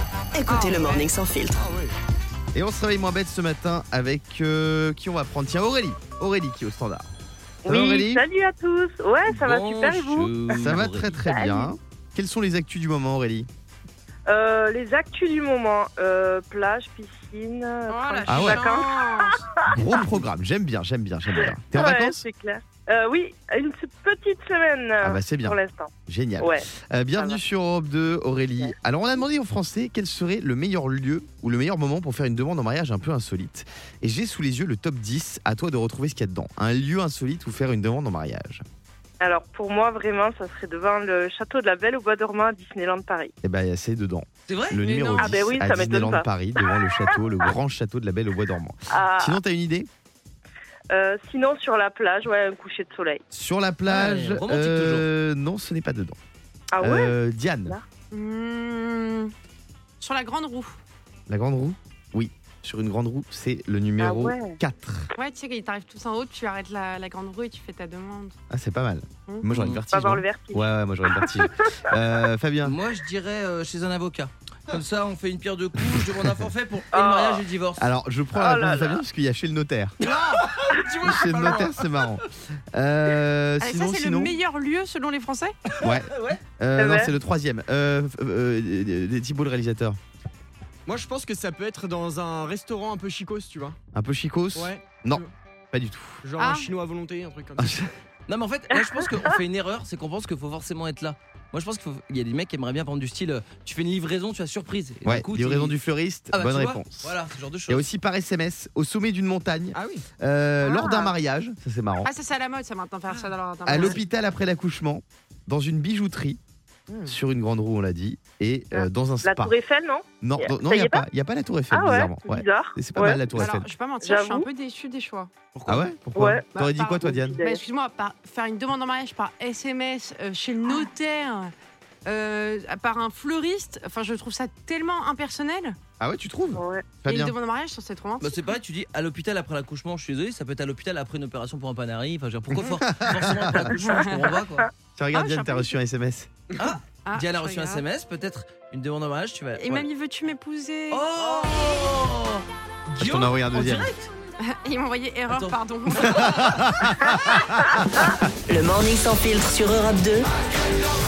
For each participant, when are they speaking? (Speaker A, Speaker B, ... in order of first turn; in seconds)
Speaker A: 0.3-1.6, 158.5-160.3
Speaker B: 0.5-1.1, 17.9-19.4, 44.8-45.4, 58.1-59.3, 60.0-60.8, 65.2-68.4, 83.6-85.6, 96.4-96.7, 112.0-114.0, 123.3-125.3, 126.5-131.5, 132.0-135.8, 137.1-138.5, 143.7-144.2, 145.1-145.8, 147.0-147.8, 149.6-151.0, 154.4-156.3
Speaker C: 1.6-1.9, 80.0-81.9, 90.9-93.8, 94.5-95.3, 96.2-97.9, 109.7-110.0, 116.9-117.1
Speaker D: 2.5-7.1, 7.6-8.2, 10.5-13.5, 18.3-18.7, 19.7-22.2, 25.0-38.6, 43.4-49.9, 53.3-56.2, 56.8-57.8, 61.3-65.1, 68.5-72.8, 75.9-76.4, 77.8-80.0, 81.0-84.4, 85.8-90.0, 93.9-96.2, 97.6-97.9, 105.0-112.1, 113.7-116.4, 117.0-119.5, 120.2-123.7, 125.7-127.4, 136.0-137.3, 143.0-143.7, 144.9-146.3, 153.0-153.9, 156.1-158.2
Speaker E: 7.6-11.7, 14.3-19.8, 21.4-27.4, 39.2-43.3, 45.2-47.1, 48.9-49.4, 50.9-53.2, 56.7-57.1, 64.0-64.6, 69.9-71.3, 76.9-77.5, 78.4-79.0, 86.8-87.1, 98.7-99.1, 110.6-111.1, 118.7-121.0, 121.7-123.2, 124.0-124.5, 126.1-126.5, 127.0-127.6, 136.6-136.9
Speaker F: 9.2-11.2, 44.5-44.8, 53.9-55.1, 69.5-69.8, 72.6-77.9, 85.8-86.4, 98.3-105.8, 106.3-107.9, 125.5-125.9, 138.2-144.7, 146.6-149.9, 150.9-154.1, 155.3-156.6